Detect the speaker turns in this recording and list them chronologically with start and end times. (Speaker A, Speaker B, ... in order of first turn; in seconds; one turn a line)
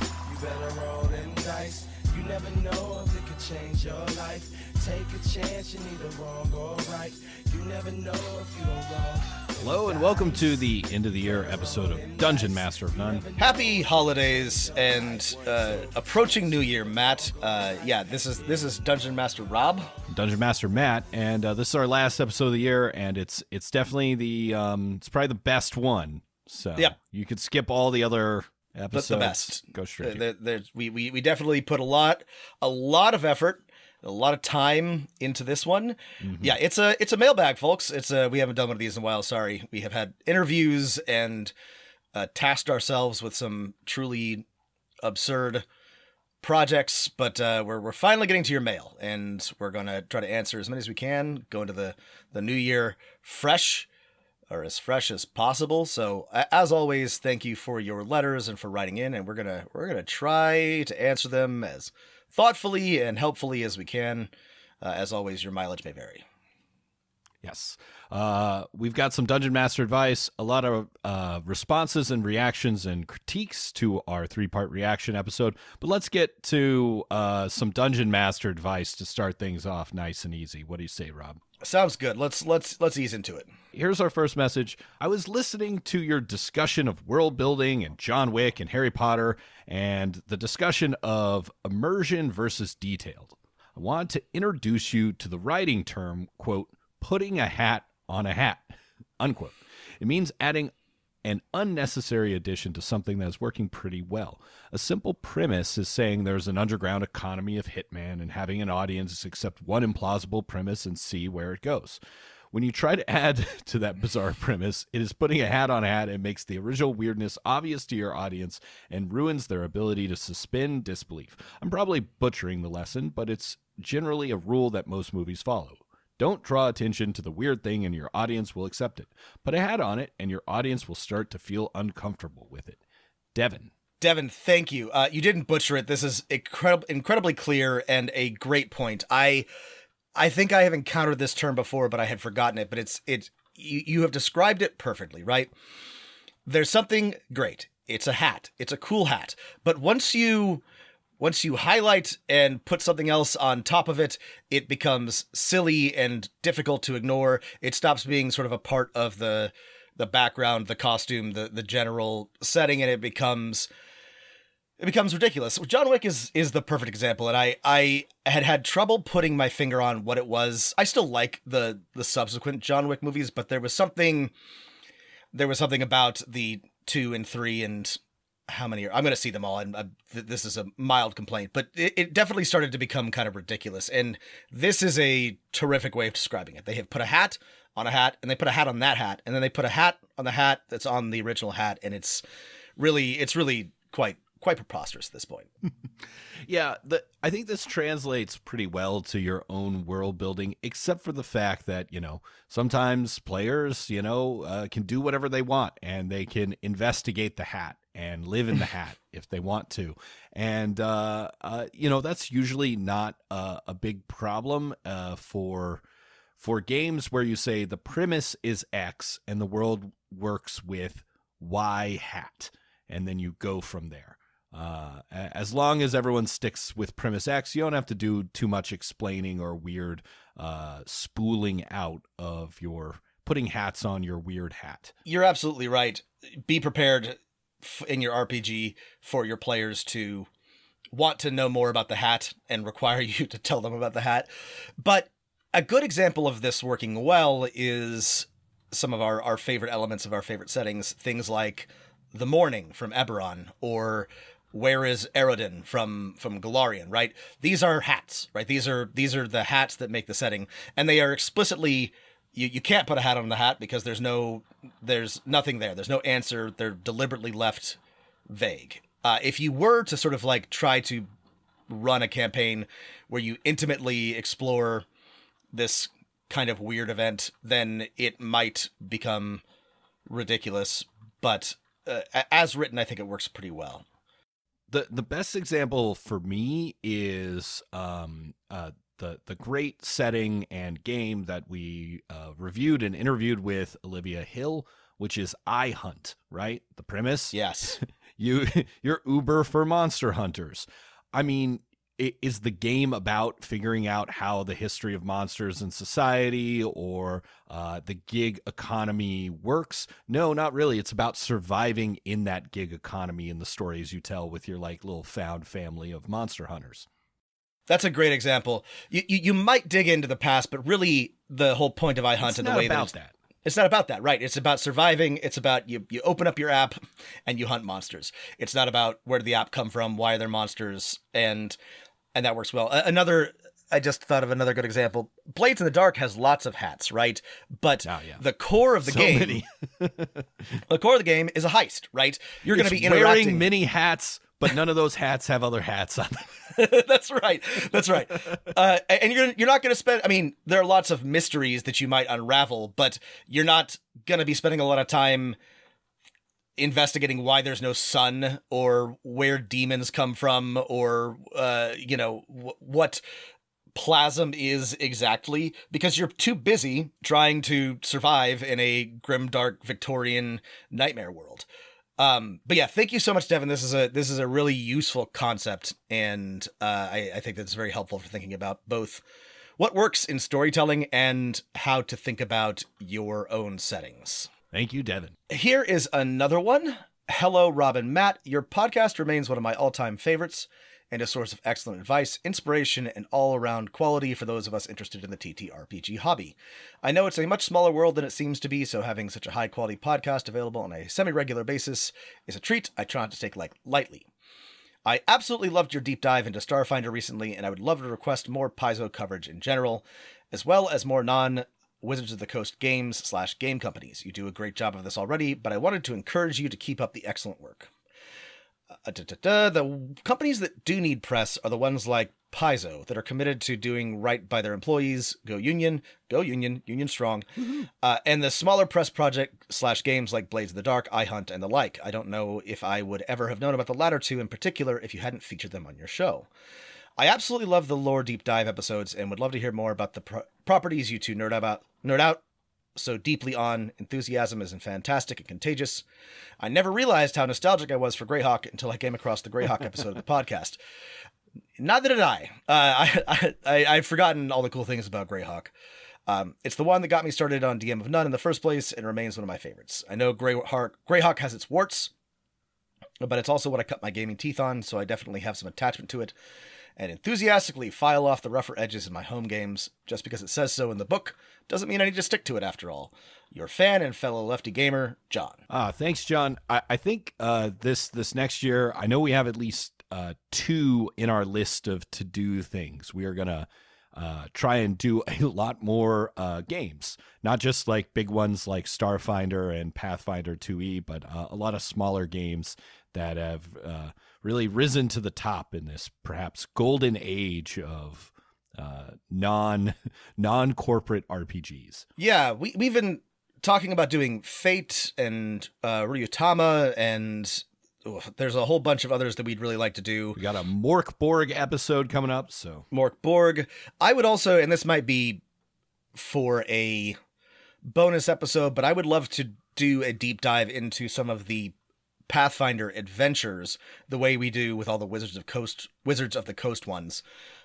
Speaker A: 0.2-18.9
Speaker B: 9.6-13.2
Speaker C: 13.4-19.9
Speaker B: 20.1-30.2
Speaker C: 28.9-41.5
Speaker B: 36.2-36.5
Speaker C: 42.1-44.4
Speaker C: 45.0-45.6
Speaker C: 46.4-53.9
Speaker C: 54.5-66.2
Speaker B: 67.4-81.4
Speaker C: 81.6-83.5
Speaker B: 83.7-98.7
Speaker B: 99.2-100.7
Speaker B: 101.2-112.0
Speaker B: 112.5-132.8
Speaker B: 133.3-133.7
Speaker C: 134.0-139.4
Speaker C: 140.2-145.5
Speaker C: 146.4-150.6
Speaker C: 151.2-163.7
Speaker C: 164.8-174.3
Speaker C: 175.3-192.2
Speaker C: 192.8-195.5
Speaker B: 196.4-215.8
Speaker B: 216.4-234.9
Speaker C: 235.1-240.3
Speaker C: 240.9-244.3
Speaker C: 244.8-267.8
Speaker C: 268.3-271.1
Speaker C: 271.7-274.9
Speaker C: 275.5-279.4
Speaker C: 280.1-283.8
Speaker B: 284.7-316.9
Speaker C: 297.3-297.8
Speaker C: 317.7-322.9
Speaker B: 322.2-323.1
Speaker C: 323.4-331.6
Speaker C: 332.1-339.4
Speaker B: 337.8-338.2
Speaker B: 338.9-340.3
Speaker C: 340.7-343.5
Speaker B: 342.5-346.5
Speaker C: 346.5-355.4
Speaker C: 356.6-363.0
Speaker C: 363.7-371.4
Speaker C: 372.0-379.0
Speaker C: 379.6-384.3
Speaker B: 384.5-385.1
Speaker C: 385.3-404.1
Speaker C: 404.8-417.7
Speaker C: 418.8-427.3
Speaker C: 427.8-436.3
Speaker C: 437.0-442.2
Speaker C: 442.8-445.8
Speaker C: 446.4-450.6
Speaker C: 451.6-455.5
Speaker C: 456.1-461.9
Speaker C: 463.0-466.1
Speaker C: 466.8-475.4
Speaker B: 475.5-501.8
Speaker C: 502.0-510.2
Speaker B: 510.1-512.7
Speaker C: 512.7-515.2
Speaker C: 515.9-517.0
Speaker C: 517.6-521.5
Speaker C: 522.1-527.0